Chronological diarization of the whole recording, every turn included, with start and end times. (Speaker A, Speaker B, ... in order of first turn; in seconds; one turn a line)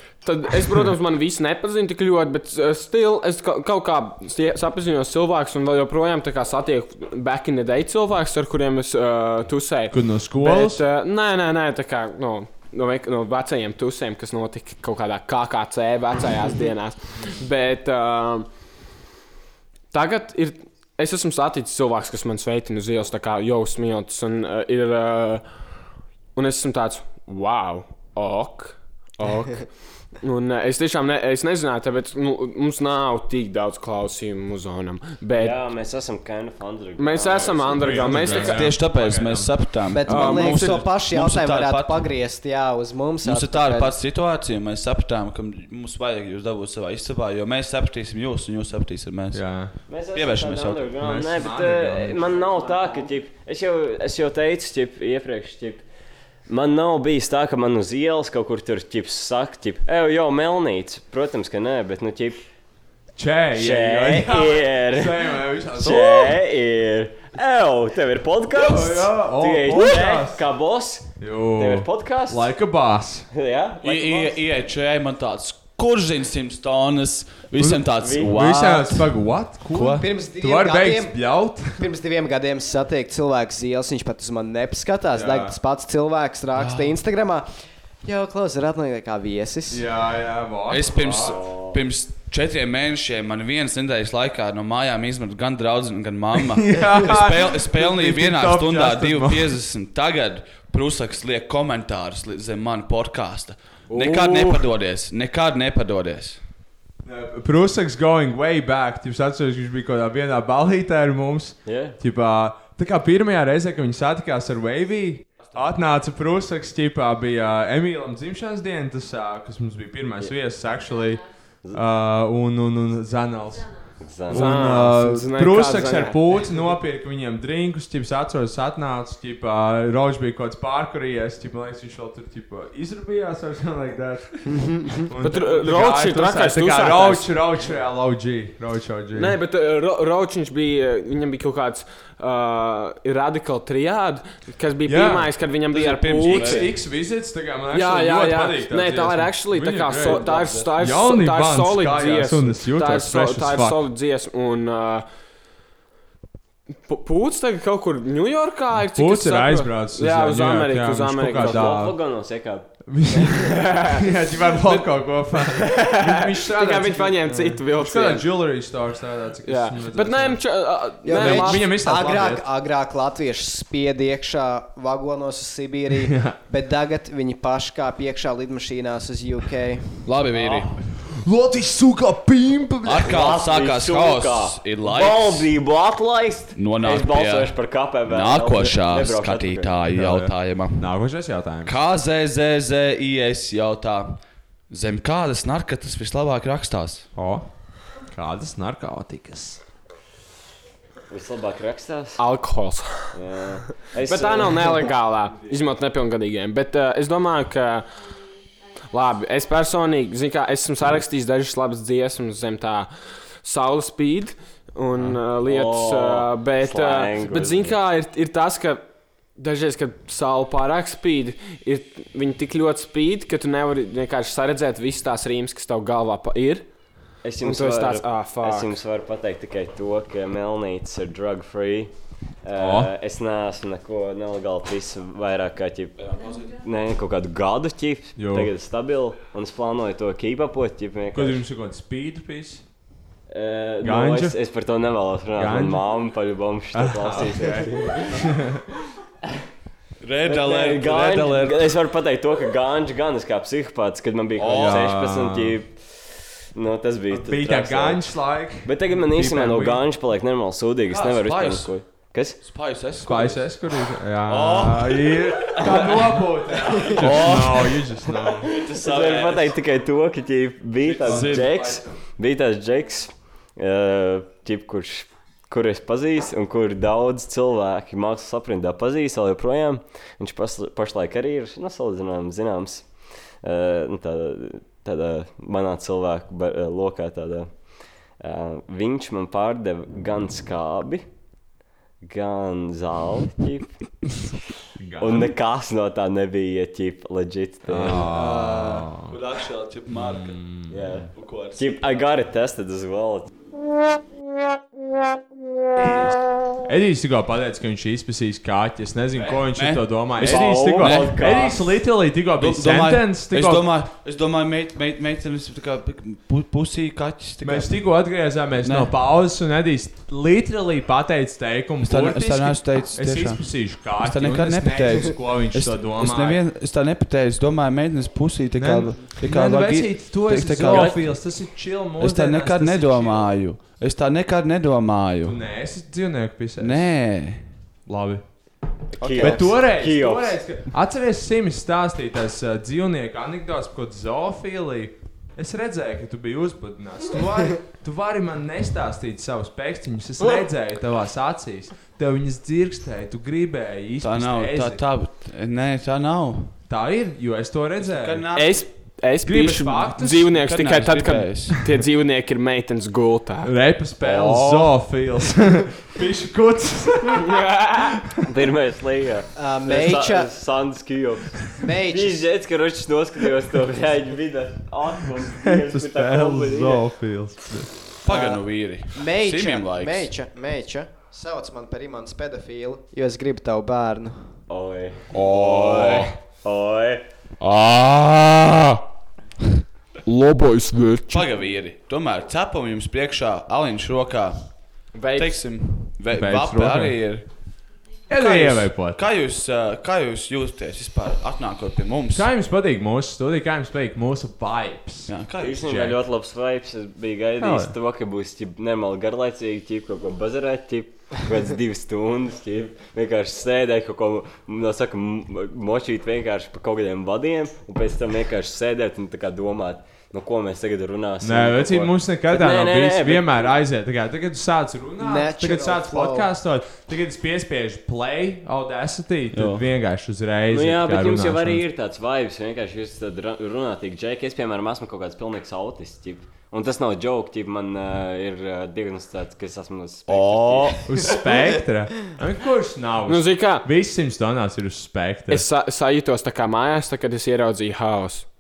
Speaker A: 0.2-18.5
Speaker B: 9.9-10.8
Speaker A: 19.9-25.4
Speaker A: 26.3-29.7
Speaker A: 30.2-35.6
Speaker C: 35.4-38.5
Speaker A: 37.0-38.6
Speaker B: 37.7-39.7
Speaker D: 38.4-42.1
Speaker E: 39.9-43.9
Speaker A: 40.1-40.8
Speaker D: 43.2-49.4
Speaker B: 49.3-49.7
Speaker C: 49.9-55.8
Speaker D: 50.1-50.9
Speaker B: 51.0-52.3
Speaker C: 56.5-62.4
Speaker B: 63.1-66.4
Speaker C: 63.5-72.5
Speaker B: 68.5-70.4
Speaker B: 71.2-73.3
Speaker C: 73.3-74.4
Speaker D: 73.8-79.1
Speaker B: 77.6-81.8
Speaker C: 78.0-78.3
Speaker D: 79.7-80.0
Speaker E: 79.9-81.2
Speaker E: 81.8-87.5
Speaker B: 85.1-85.5
Speaker D: 86.5-87.0
Speaker E: 88.0-89.8
Speaker B: 89.7-91.4
Speaker D: 90.7-106.4
Speaker C: 91.2-91.8
Speaker B: 96.4-99.5
Speaker B: 107.0-123.7
Speaker C: 111.7-112.0
Speaker C: 124.0-124.6
Speaker B: 124.3-139.3
Speaker A: 124.3-126.4
Speaker E: 134.6-135.0
Speaker A: 135.2-137.3
Speaker A: 139.1-146.7
Speaker B: 144.8-145.3
Speaker D: 145.7-146.7
Speaker B: 146.2-153.8
Speaker A: 147.7-155.0
Speaker D: 150.0-150.7
Speaker A: 156.8-161.7
Speaker B: 158.8-161.9
Speaker C: 161.3-162.7
Speaker B: 162.9-170.4
Speaker A: 163.3-164.0
Speaker A: 164.6-164.8
Speaker A: 165.4-168.3
Speaker A: 169.4-171.7
Speaker E: 171.0-180.0
Speaker B: 171.1-172.4
Speaker B: 176.0-176.4
Speaker D: 180.0-180.8
Speaker C: 180.3-180.6
Speaker B: 181.0-183.1
Speaker D: 182.8-185.5
Speaker C: 183.0-189.8
Speaker D: 186.6-187.5
Speaker D: 188.1-190.9
Speaker B: 189.9-191.7
Speaker D: 191.7-197.1
Speaker B: 197.2-197.5
Speaker B: 198.1-199.6
Speaker C: 201.1-202.2
Speaker A: 202.2-203.1
Speaker C: 203.1-204.8
Speaker A: 204.0-207.8
Speaker A: 208.9-212.9
Speaker A: 213.4-218.8
Speaker C: 215.4-217.8
Speaker A: 219.4-226.7
Speaker C: 227.2-231.9
Speaker A: 227.4-228.7
Speaker C: 232.4-236.0
Speaker B: 232.6-232.9
Speaker D: 236.0-236.6
Speaker C: 236.6-241.4
Speaker B: 238.2-238.5
Speaker B: 241.1-242.6
Speaker C: 243.3-248.2
Speaker B: 243.8-244.3
Speaker B: 245.3-245.8
Speaker B: 246.7-248.6
Speaker D: 250.0-251.7
Speaker C: 250.2-258.1
Speaker D: 254.4-254.9
Speaker B: 254.5-255.6
Speaker B: 257.1-259.8
Speaker C: 258.6-262.4
Speaker D: 260.9-261.7
Speaker D: 262.4-266.2
Speaker B: 263.0-268.5
Speaker D: 266.9-269.6
Speaker C: 268.7-282.9
Speaker D: 270.8-271.8
Speaker B: 271.1-271.7
Speaker C: 283.4-287.5
Speaker C: 288.2-291.0
Speaker C: 292.0-293.7
Speaker B: 294.8-295.3
Speaker C: 295.0-298.1
Speaker B: 297.7-299.1
Speaker D: 297.8-300.4
Speaker B: 299.9-300.8
Speaker C: 300.7-303.3
Speaker D: 301.1-302.1
Speaker B: 306.7-313.7
Speaker D: 309.1-311.4
Speaker C: 310.2-311.7
Speaker D: 312.4-317.8
Speaker B: 317.4-326.4
Speaker D: 318.6-318.9
Speaker D: 321.8-331.1
Speaker B: 328.6-333.3
Speaker C: 330.6-331.0
Speaker D: 332.0-335.4
Speaker B: 335.2-336.9
Speaker D: 336.6-337.5
Speaker B: 337.9-338.2
Speaker C: 338.9-340.4
Speaker B: 339.1-354.8
Speaker D: 354.0-356.6
Speaker B: 356.7-358.2
Speaker D: 357.8-358.7
Speaker A: 358.3-363.5
Speaker B: 359.2-360.3
Speaker D: 360.3-361.6
Speaker B: 363.4-367.5
Speaker D: 364.0-364.7
Speaker A: 367.2-367.9
Speaker C: 368.3-376.8
Speaker E: 369.4-370.3
Speaker E: 371.6-372.2
Speaker B: 375.4-377.7
Speaker D: 378.0-380.1
Speaker E: 378.1-378.4
Speaker E: 378.9-384.3
Speaker C: 384.5-387.1
Speaker D: 385.1-386.1
Speaker A: 387.4-388.8
Speaker A: 390.1-391.2
Speaker D: 391.1-394.5
Speaker A: 394.9-395.4
Speaker D: 395.1-397.3
Speaker B: 396.1-397.0
Speaker B: 398.1-399.0
Speaker D: 398.1-402.3
Speaker B: 402.1-405.1
Speaker D: 405.1-405.9
Speaker C: 405.4-423.5
Speaker B: 407.4-407.7
Speaker B: 421.2-431.6
Speaker E: 425.0-426.3
Speaker D: 429.3-429.6
Speaker C: 430.5-441.1
Speaker D: 440.1-441.1
Speaker B: 440.9-445.4
Speaker A: 443.1-443.6
Speaker A: 445.3-448.2